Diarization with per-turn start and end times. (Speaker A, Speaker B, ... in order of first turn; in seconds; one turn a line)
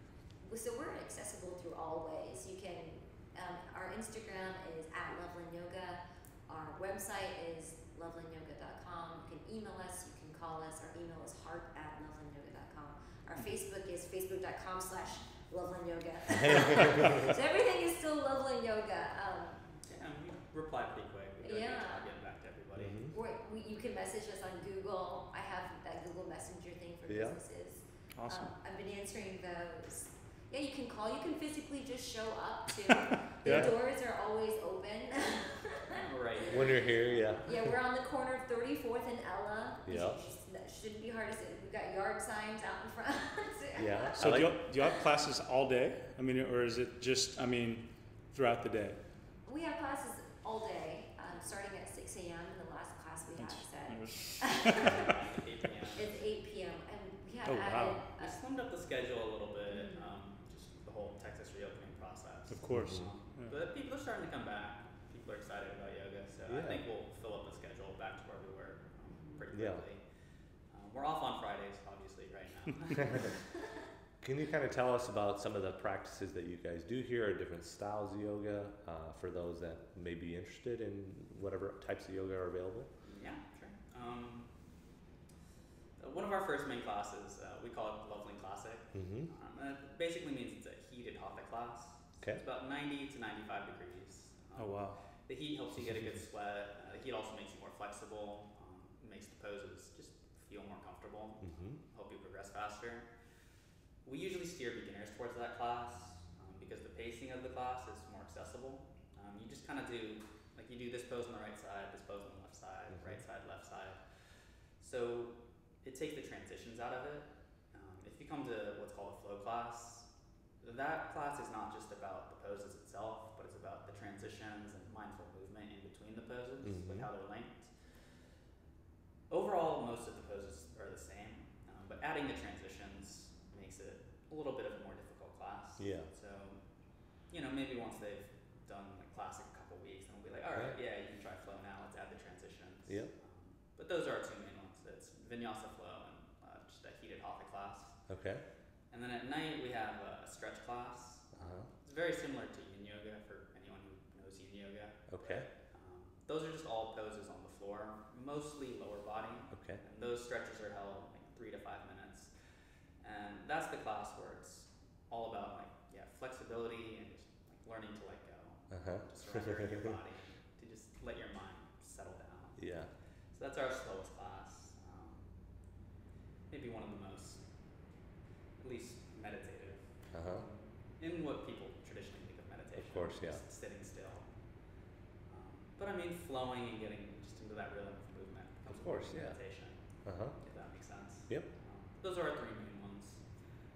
Speaker A: 0.4-19.7
Speaker B: 19.8-23.1
Speaker A: 21.4-22.1
Speaker C: 22.8-23.1
Speaker A: 23.1-36.0
Speaker C: 27.1-27.4
Speaker D: 28.1-28.5
Speaker D: 33.4-33.7
Speaker C: 33.4-33.7
Speaker B: 35.9-37.5
Speaker C: 36.4-37.5
Speaker A: 37.4-44.4
Speaker C: 39.9-40.2
Speaker C: 43.8-44.5
Speaker D: 44.1-49.0
Speaker A: 49.5-55.1
Speaker D: 53.4-55.1
Speaker B: 54.8-56.1
Speaker A: 56.0-58.3
Speaker D: 57.4-58.0
Speaker B: 58.2-70.0
Speaker A: 59.7-60.1
Speaker D: 62.5-63.5
Speaker C: 62.7-63.1
Speaker C: 66.5-66.8
Speaker C: 69.5-69.8
Speaker B: 70.7-73.5
Speaker C: 74.2-82.9
Speaker B: 83.0-84.5
Speaker B: 86.0-103.1
Speaker C: 88.9-89.3
Speaker D: 94.5-95.0
Speaker C: 101.4-101.8
Speaker B: 104.0-120.1
Speaker B: 120.6-127.7
Speaker C: 126.6-127.1
Speaker B: 129.3-136.6
Speaker C: 135.8-136.1
Speaker B: 137.3-148.0
Speaker C: 148.1-148.4
Speaker B: 148.9-162.3
Speaker C: 151.3-151.7
Speaker C: 155.1-155.5
Speaker C: 159.5-159.8
Speaker B: 163.0-172.8
Speaker C: 168.7-169.9
Speaker C: 172.6-172.9
Speaker B: 173.3-175.2
Speaker B: 176.5-177.4
Speaker B: 178.6-184.3
Speaker C: 180.1-180.5
Speaker C: 182.8-183.4
Speaker B: 185.3-189.8
Speaker C: 188.7-189.4
Speaker C: 190.0-190.3
Speaker B: 190.4-193.2